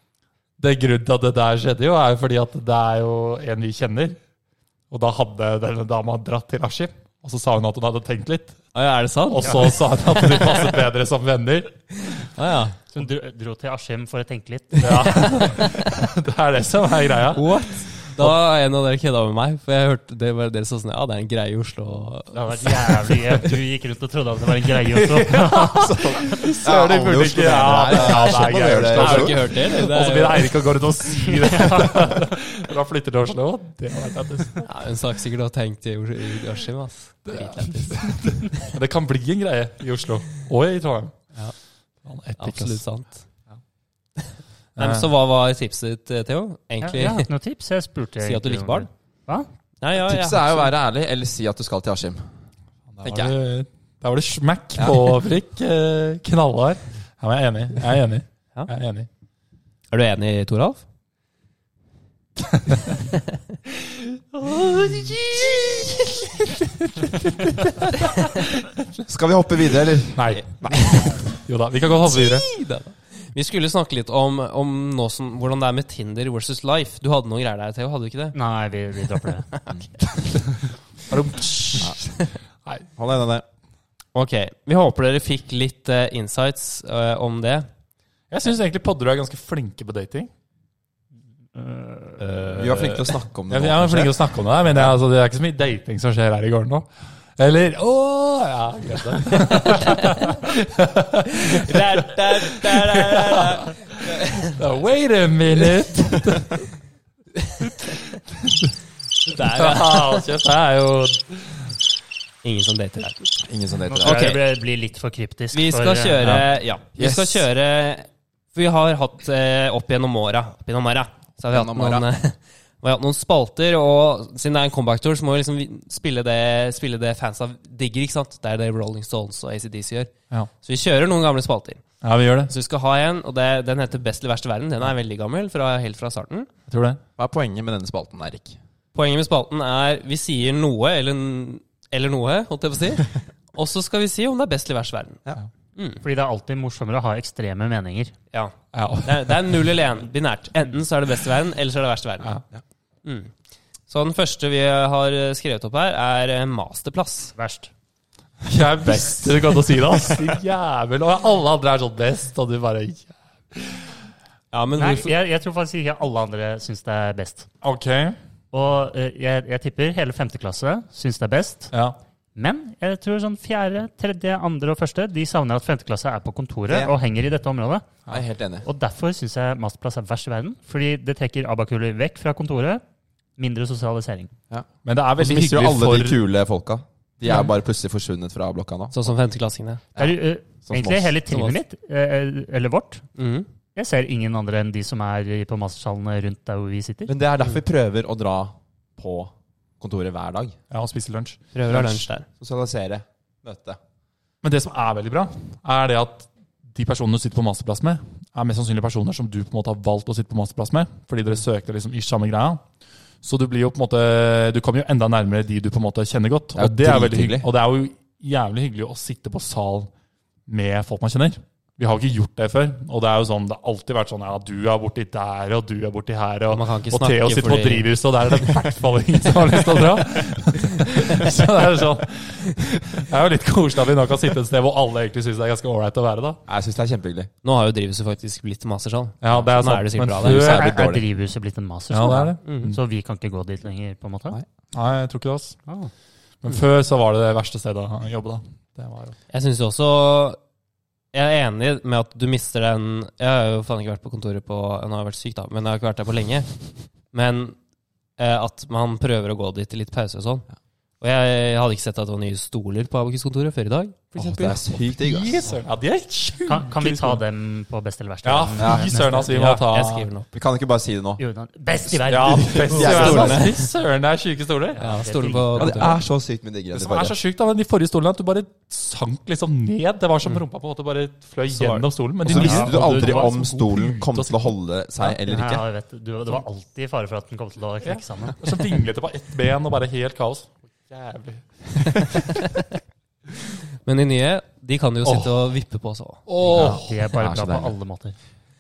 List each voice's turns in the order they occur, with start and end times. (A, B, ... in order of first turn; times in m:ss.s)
0:00.6-0:04.2 A
0:04.9-0:08.6 A
0:08.7-0:10.6 B
0:09.3-0:11.9 A
0:12.2-0:12.8 B
0:12.9-0:15.4 C
0:14.8-0:18.4 A
0:15.3-0:15.9 B
0:17.3-0:23.0 B
0:22.3-0:26.2 C
0:24.9-0:34.7 A
0:25.8-0:29.6 D
0:27.9-0:30.7 B
0:31.2-0:32.0 C
0:34.6-0:38.7 B
0:37.3-0:41.3 A
0:42.0-0:42.8 A
0:42.4-0:43.2 B
0:44.2-0:47.3 B
0:44.8-0:45.1 A
0:46.8-0:49.5 C
0:48.2-0:48.9 B
0:49.8-0:50.7 B
0:49.9-0:52.3 D
0:52.9-0:59.1 A
0:53.0-0:53.3 D
0:54.8-0:55.1 D
0:59.9-1:00.8 B
1:02.4-1:02.9 A
1:03.9-1:05.2 A
1:04.4-1:06.6 B
1:07.4-1:08.5 B
1:07.8-1:08.5 A
1:09.0-1:11.2 D
1:10.1-1:12.5 A
1:10.7-1:11.2 B
1:12.0-1:18.4 B
1:18.3-1:19.5 C
1:21.1-1:22.0 A
1:22.9-1:23.4 D
1:24.1-1:27.7 B
1:28.3-1:30.3 A
1:31.5-1:32.2 C
1:32.2-1:33.0 B
1:32.5-1:34.9 D
1:33.5-1:46.6 A
1:41.3-1:44.6 B
1:47.4-1:48.0 B
1:47.9-1:48.7 A
1:49.2-1:50.2 B
1:49.4-1:51.7 A
1:52.4-1:53.4 B
1:53.4-1:54.4 D
1:53.9-1:56.3 C
1:54.0-1:54.4 B
1:55.5-2:10.1 B
1:56.2-1:56.4 A
1:57.0-1:57.5 D
2:01.5-2:02.0 D
2:10.6-2:11.8 B
2:12.0-2:12.5 A
2:12.5-2:16.5 B
2:16.7-2:17.0 A
2:17.2-2:18.6 D
2:18.9-2:25.2 B
2:25.8-2:26.0 B
2:26.0-2:28.1 C
2:28.3-2:32.3 B
2:28.7-2:29.6 A
2:33.0-2:33.3 B
2:33.9-2:37.3 B
2:37.3-2:37.7 C
2:38.4-2:43.8 A
2:44.5-2:45.1 B
2:44.8-2:47.5 C
2:47.6-2:48.2 A
2:48.5-2:51.7 C
2:51.7-2:52.0 A
2:52.3-2:57.9 C
2:56.7-2:56.9 D
2:58.1-2:58.7 D
2:58.6-3:02.8 C
3:03.4-3:04.3 C
3:04.5-3:09.0 D
3:04.8-3:06.2 A
3:08.9-3:09.8 B
3:10.0-3:13.0 C
3:10.6-3:11.2 D
3:11.3-3:11.6 B
3:13.2-3:13.5 B
3:13.7-3:17.1 C
3:17.1-3:20.6 D
3:20.7-3:21.4 A
3:21.5-3:22.2 B
3:21.7-3:23.8 D
3:24.4-3:32.6 A
3:33.2-3:39.9 A
3:36.6-3:37.4 D
3:40.5-3:56.4 A
3:46.5-3:47.9 B
3:56.5-3:57.3 D
3:57.4-4:00.5 B
3:59.2-4:00.8 A
4:00.2-4:01.0 D
4:00.3-4:04.4 C
4:01.9-4:02.8 A
4:02.4-4:02.7 B
4:04.7-4:05.6 A
4:06.4-4:09.2 A
4:09.3-4:10.4 B
4:11.1-4:17.6 B
4:18.2-4:20.5 B
4:21.0-4:24.0 B
4:24.1-4:27.2 A
4:24.1-4:25.5 D
4:26.5-4:29.3 C
4:28.2-4:30.1 A
4:28.6-4:28.9 D
4:29.1-4:30.3 B
4:30.3-4:31.2 D
4:31.2-4:33.4 C
4:31.8-4:33.5 D
4:32.1-4:34.8 A
4:32.7-4:33.6 B
4:34.8-4:36.0 B
4:34.8-4:35.9 C
4:35.6-4:37.2 D
4:36.7-4:45.2 A
4:41.5-4:41.9 B
4:42.2-4:45.6 D
4:42.2-4:43.3 C
4:45.2-4:48.4 C
4:47.8-4:52.4 A
4:53.8-4:56.3 B
4:55.0-4:55.4 A
4:56.3-4:57.0 A
4:56.5-4:57.8 D
4:56.5-4:58.2 C